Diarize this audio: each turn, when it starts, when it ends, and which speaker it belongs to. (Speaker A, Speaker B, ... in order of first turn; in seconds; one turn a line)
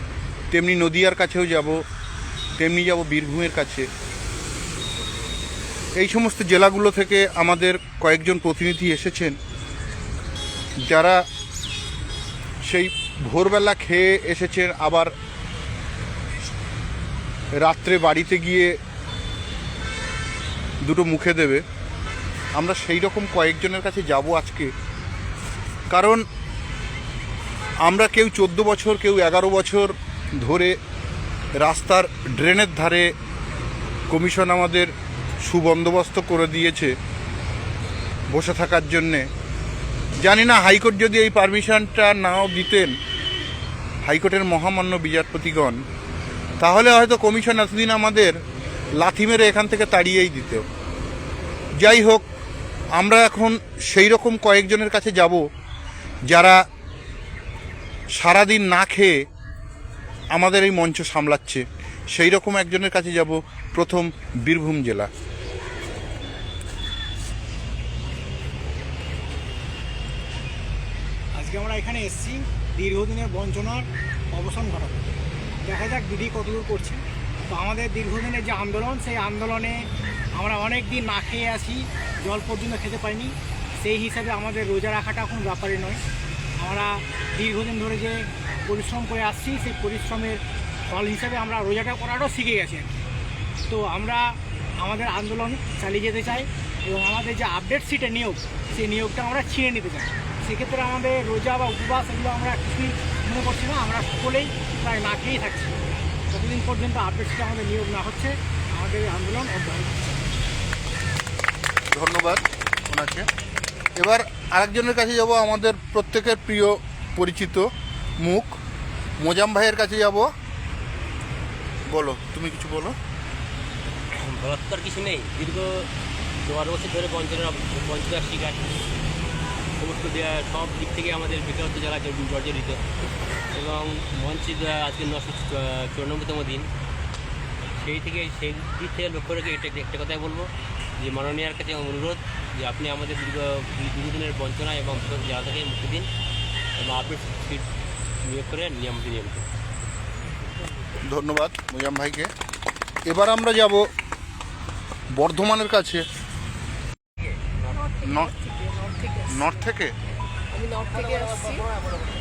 Speaker A: 0.5-1.8
Speaker A: 2.6-3.9
Speaker A: 6.0-9.4
Speaker A: 10.8-11.2
Speaker A: 12.7-15.1
Speaker A: 17.6-18.8
Speaker A: 20.8-21.6
Speaker A: 22.6-24.7
Speaker A: 25.9-26.2
Speaker A: 27.9-30.8
Speaker A: 31.6-33.1
Speaker A: 34.1-34.9
Speaker A: 35.5-36.9
Speaker A: 38.3-39.3
Speaker A: 40.2-42.9
Speaker A: 44.1-45.8
Speaker A: 46.6-48.4
Speaker A: 49.0-50.6
Speaker A: 51.8-52.2
Speaker A: 53.0-55.4
Speaker A: 56.3-56.6
Speaker A: 58.2-59.2
Speaker A: 60.3-65.1
Speaker B: 71.3-75.1
Speaker B: 75.6-79.8
Speaker B: 80.3-86.0
Speaker B: 86.6-92.9
Speaker B: 93.7-105.7
Speaker B: 106.3-110.1
Speaker A: 111.9-113.3
Speaker A: 114.0-117.7
Speaker A: 118.2-118.6
Speaker A: 119.2-120.3
Speaker A: 121.9-123.0
Speaker C: 124.2-125.9
Speaker C: 126.4-128.7
Speaker C: 129.8-132.8
Speaker C: 133.5-136.7
Speaker C: 137.8-146.1
Speaker C: 146.8-147.7
Speaker C: 148.2-149.4
Speaker A: 151.1-152.3
Speaker A: 153.1-153.8
Speaker A: 155.1-156.0
Speaker D: 157.7-159.7
Speaker A: 158.1-158.3
Speaker A: 159.3-159.9
Speaker D: 160.5-161.8